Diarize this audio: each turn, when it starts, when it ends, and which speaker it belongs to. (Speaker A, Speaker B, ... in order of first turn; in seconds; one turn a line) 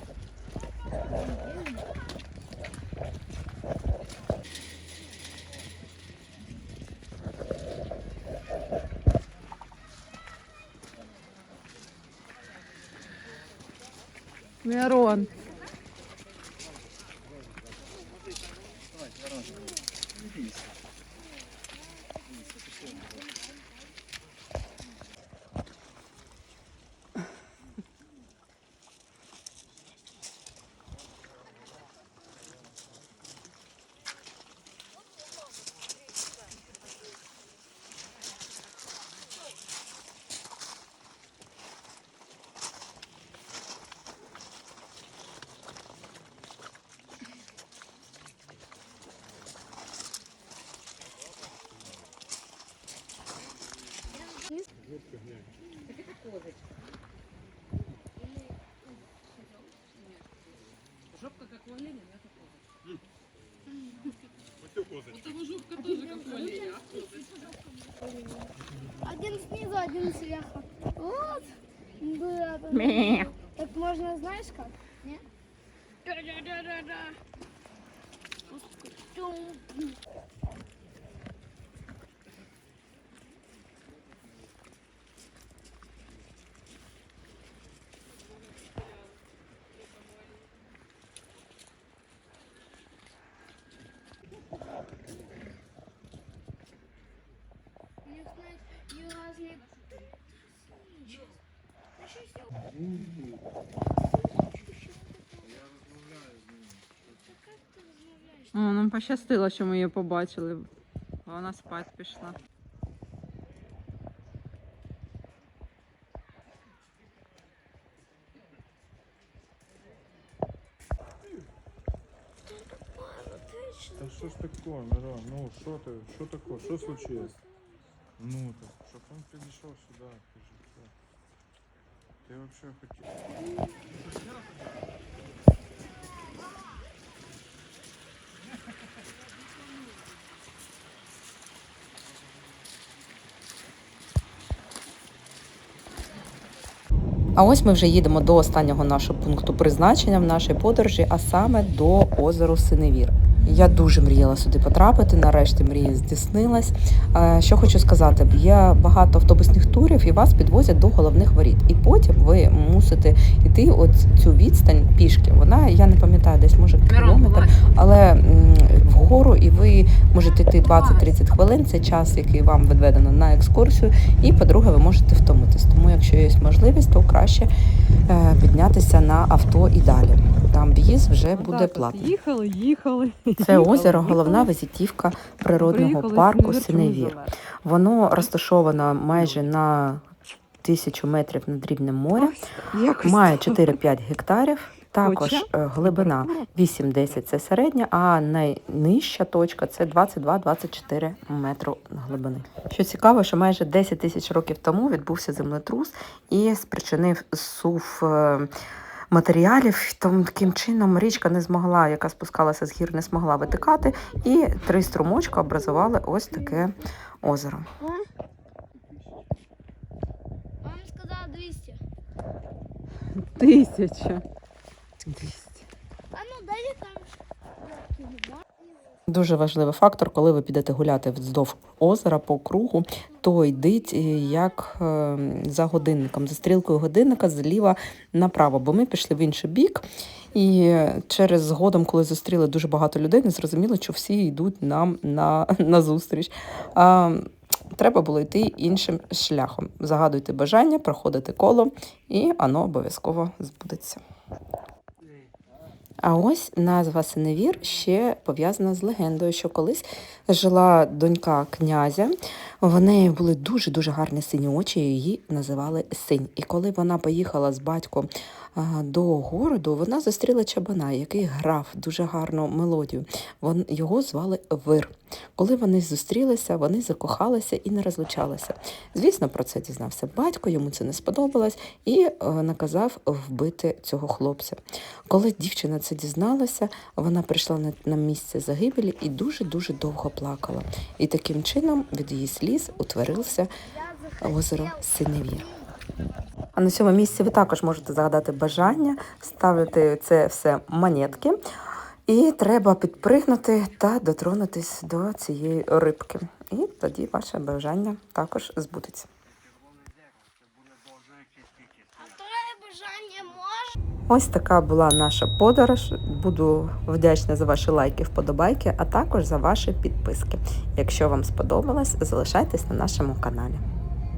Speaker A: 14.6-15.3
Speaker B: 54.4-54.6
Speaker B: 65.8-67.2
Speaker B: 68.0-68.5
Speaker B: 69.0-75.2
Speaker B: 76.0-77.2
Speaker B: 78.5-80.0
Speaker B: 98.1-99.8
Speaker B: 100.6-101.3
Speaker B: 102.1-102.5
Speaker B: 104.8-105.6
Speaker B: 107.1-108.5
Speaker A: 108.5-110.7
Speaker A: 111.3-112.4
Speaker B: 122.5-124.3
Speaker C: 124.0-127.4
Speaker B: 126.6-127.3
Speaker C: 128.2-130.9
Speaker C: 132.3-133.1
Speaker D: 147.4-177.5
Speaker A: 166.9-167.6
Speaker A: 170.6-171.0
Speaker D: 178.1-182.1
Speaker A: 181.3-184.5
Speaker D: 183.4-190.1
Speaker A: 185.6-187.3
Speaker D: 190.6-192.4
Speaker A: 192.2-193.8
Speaker D: 193.0-208.5
Speaker A: 195.0-196.4
Speaker D: 209.1-217.7
Speaker B: 217.8-218.1
Speaker B: 220.6-221.8
Speaker A: 223.1-224.2
Speaker A: 225.1-225.7
Speaker B: 226.1-228.4
Speaker D: 229.1-254.0
Speaker D: 256.0-293.5
Speaker B: 293.6-294.8
Speaker D: 294.2-295.5
Speaker D: 296.6-301.4
Speaker D: 302.1-309.1
Speaker B: 312.0-313.8
Speaker D: 314.1-323.6